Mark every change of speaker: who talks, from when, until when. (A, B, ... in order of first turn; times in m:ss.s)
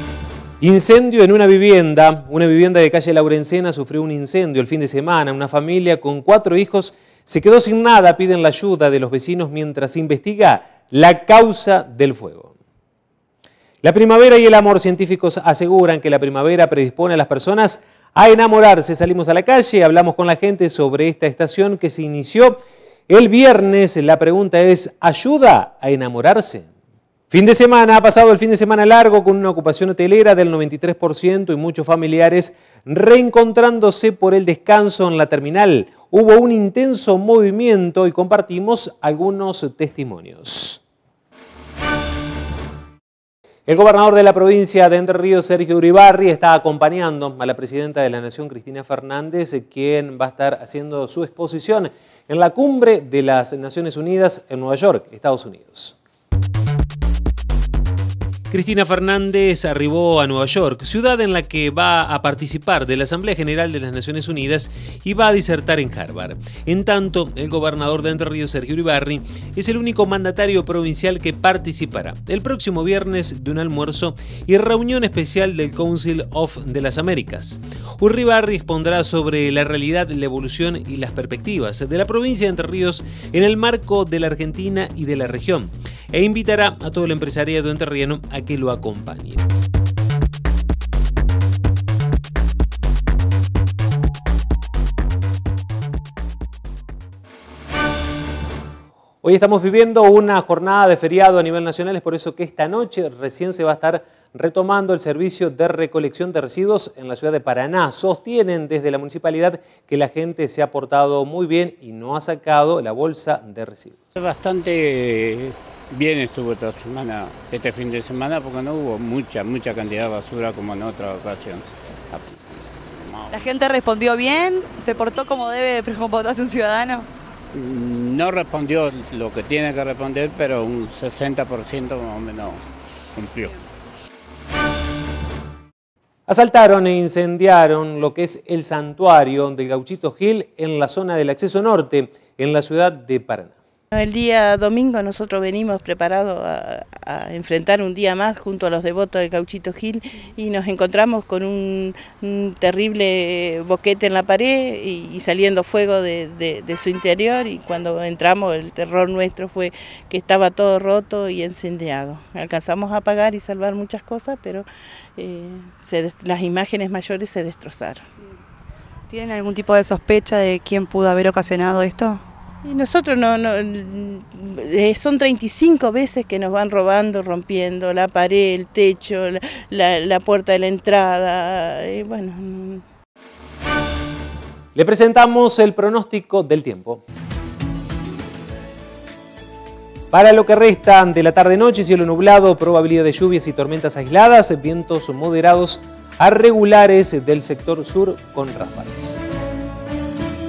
0:00.6-0:12.5 A
0:13.8-0:26.7 A
0:27.3-0:40.8 A
0:43.7-0:56.0 A
0:58.5-1:29.4 A
1:39.2-1:54.0 A
1:54.2-2:03.4 B
2:03.3-2:07.1 C
2:07.5-2:12.6 B
2:13.1-2:13.6 B
2:16.3-2:23.5 A
2:23.9-2:48.0 D
2:49.1-2:52.2 C
2:52.6-3:02.8 D
3:04.7-3:07.0 A
3:10.1-3:19.2 A